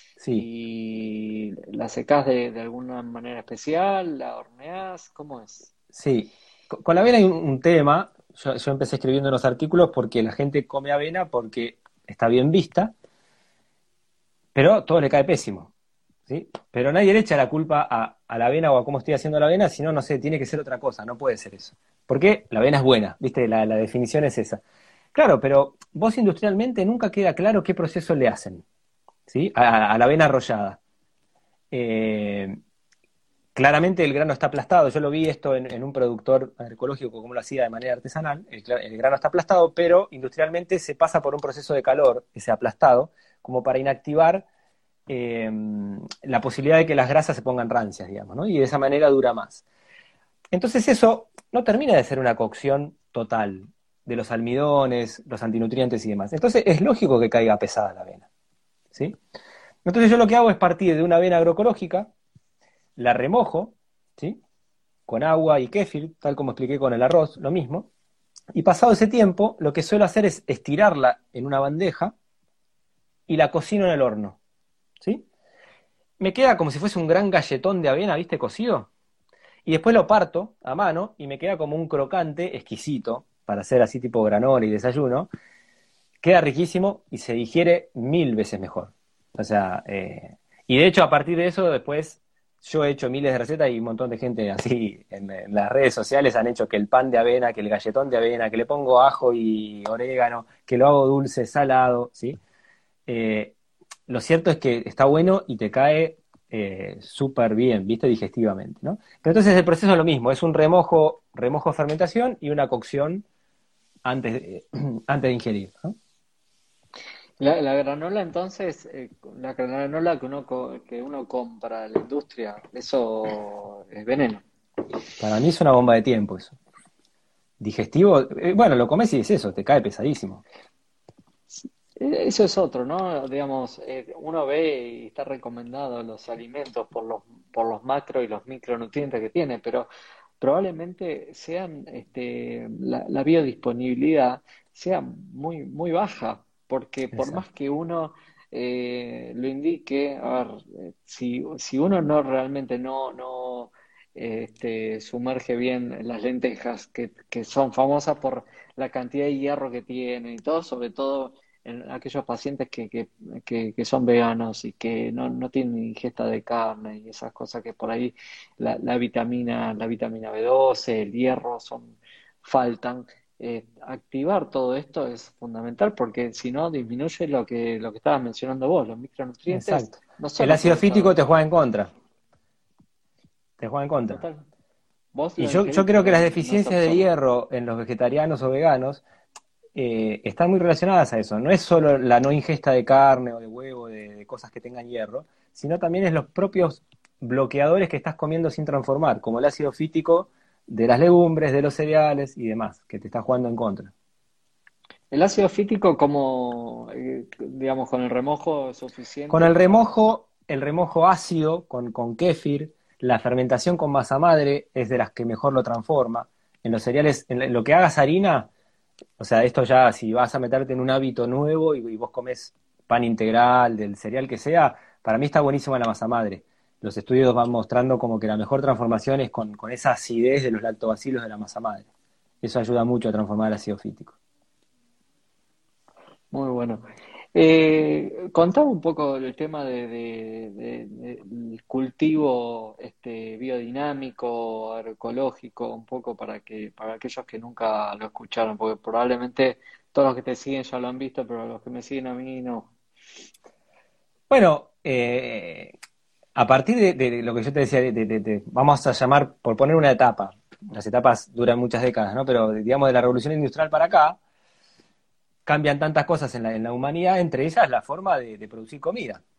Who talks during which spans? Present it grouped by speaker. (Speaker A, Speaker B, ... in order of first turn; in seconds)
Speaker A: 0.2-0.5, 5.9-12.9, 14.6-15.7, 16.3-24.6, 25.1-28.6, 29.3-30.8, 31.7-32.6, 33.5-44.5, 45.1-49.6, 50.5-58.3, 58.9-59.2, 59.9-62.1, 63.0-64.4, 65.1-67.9, 68.5-72.1, 73.3-74.4, 76.2-78.9, 79.7-85.3, 86.2-102.4, 103.1-103.5, 104.1-113.2, 114.0-116.0, 125.2-126.5, 127.6-130.4, 147.1-147.4, 179.5-181.9, 183.6-184.2, 185.4-189.0, 189.8-203.9, 209.3-218.5, 219.2-231.9, 232.4-234.2, 254.3-255.8, 256.4-264.2, 265.5-269.2
Speaker B: 0.3-5.7, 117.4-124.4, 132.0-139.9, 140.4-181.2, 184.1-184.5, 185.1-187.1, 205.1-209.9, 236.3-252.7